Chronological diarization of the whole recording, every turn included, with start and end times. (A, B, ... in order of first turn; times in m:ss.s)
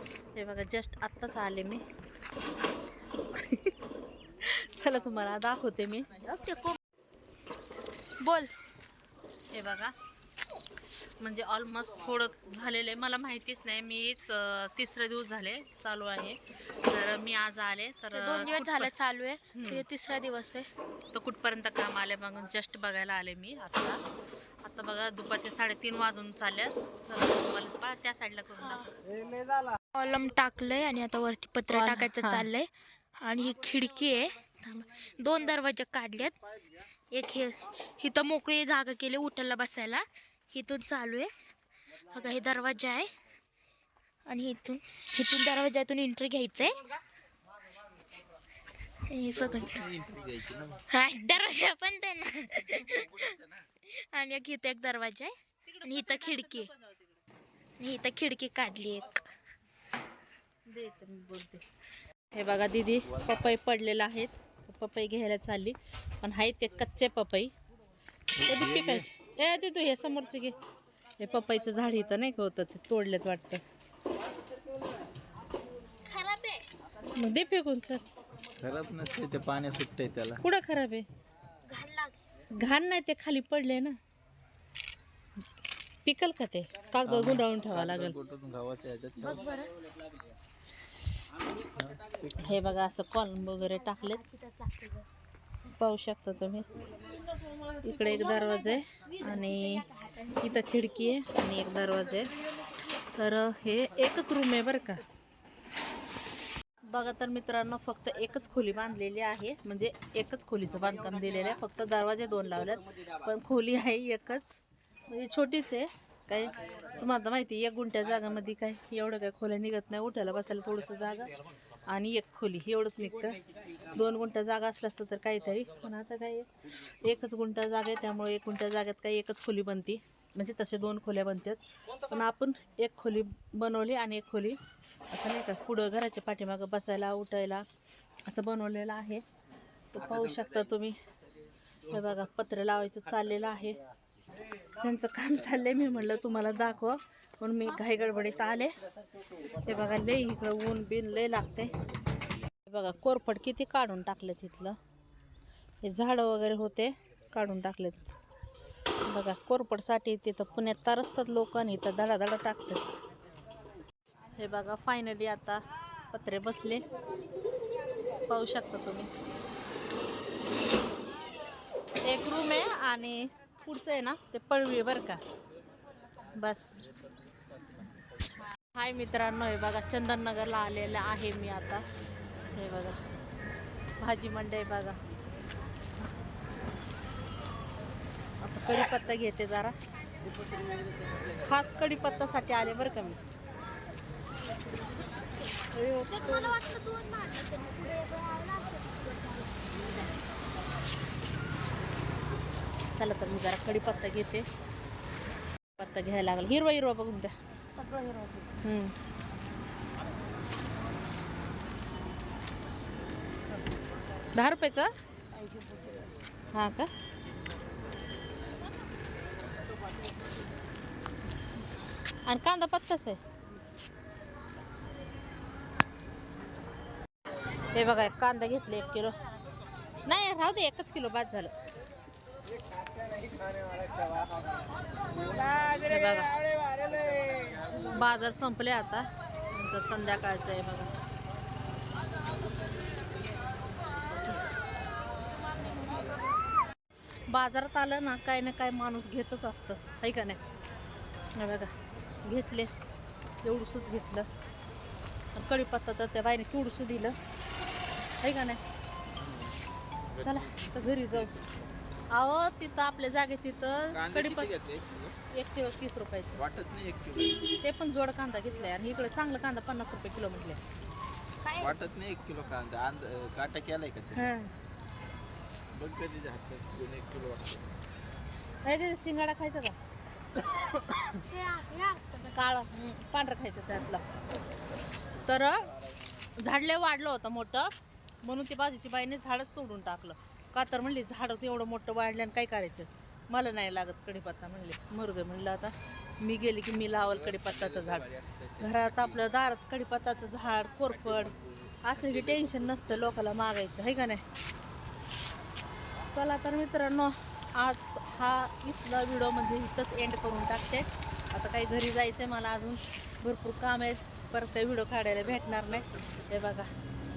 0:00.3-0:01.8 A
0:03.3-0:03.7 A
0:04.4-0:06.4 A
0:06.3-0:06.8 B
0:08.2-0:08.5 B
0:09.5-0:09.9 A
0:11.2-0:18.9 A
0:18.1-0:20.7 B
0:19.5-0:19.8 A
0:21.1-0:24.0 A
0:24.6-0:28.9 A
0:28.6-0:28.9 B
0:29.9-0:36.3 B
0:31.7-0:32.5 A
0:37.1-0:41.3 B
0:42.1-0:43.1 B
0:44.2-0:46.8 B
0:49.1-0:49.8 B
0:49.3-0:50.8 C
0:50.9-0:56.7 B
0:55.7-0:57.1 A
0:57.8-0:59.2 B
1:00.7-1:01.6 A
1:02.3-1:07.5 A
1:03.0-1:03.5 C
1:08.4-1:09.1 C
1:08.4-1:10.5 A
1:11.2-1:13.6 A
1:16.0-1:16.6 B
1:17.1-1:18.0 A
1:18.6-1:20.4 C
1:20.4-1:21.0 A
1:21.7-1:22.2 B
1:22.6-1:24.0 A
1:26.0-1:28.2 A
1:27.0-1:29.5 C
1:29.2-1:29.7 B
1:31.6-1:32.6 C
1:32.4-1:34.2 A
1:33.9-1:35.0 B
1:35.7-1:36.7 A
1:37.8-1:39.8 A
1:38.1-1:40.4 B
1:40.4-1:42.3 A
1:43.2-1:45.0 A
1:46.9-1:54.6 A
1:55.1-2:01.3 A
2:01.9-2:03.4 A
2:03.9-2:14.6 A
2:15.1-2:17.6 A
2:18.2-2:19.2 A
2:19.9-2:21.0 A
2:21.9-2:23.8 A
2:24.8-2:28.8 A
2:29.4-2:31.8 A
2:32.6-2:34.8 A
2:35.8-2:38.2 A
2:39.0-2:42.8 A
2:44.4-2:46.8 A
2:48.3-2:49.1 A
2:52.0-2:55.2 A
2:56.3-2:57.0 A
2:58.7-3:01.8 A
3:02.5-3:03.0 A
3:04.0-3:05.0 A
3:08.4-3:09.7 A
3:11.4-3:13.2 A
3:15.7-3:16.6 A
3:16.1-3:20.1 B
3:22.9-3:24.4 A
3:25.8-3:27.3 A
3:27.8-3:28.4 B
3:28.6-3:28.9 A
3:34.3-3:34.9 A
3:36.5-3:36.9 A
3:42.2-3:43.2 A
3:47.7-3:49.2 A
3:50.0-3:51.5 A
3:55.7-3:56.3 A
3:57.7-4:00.9 A
4:07.3-4:10.4 A
4:11.3-4:11.7 A
4:12.2-4:12.7 A
4:13.4-4:14.3 A
4:15.3-4:17.2 A
4:18.2-4:18.6 A
4:19.2-4:19.6 C
4:20.1-4:21.6 C
4:20.2-4:21.3 A
4:22.1-4:24.5 A
4:23.9-4:25.2 C
4:25.3-4:26.4 A
4:26.4-4:27.6 C
4:27.6-4:30.6 A
4:31.4-4:31.8 B
4:31.6-4:34.3 C
4:34.1-4:34.5 A
4:35.7-4:37.7 C
4:38.6-4:39.7 A
4:41.2-4:42.3 B
4:42.3-4:44.0 A
4:45.2-4:45.7 A
4:46.4-4:47.7 A
4:48.2-5:01.3 A
4:56.9-4:59.3 C
5:00.8-5:03.2 C
5:01.8-5:04.2 A
5:06.1-5:16.7 A
5:15.8-5:16.1 C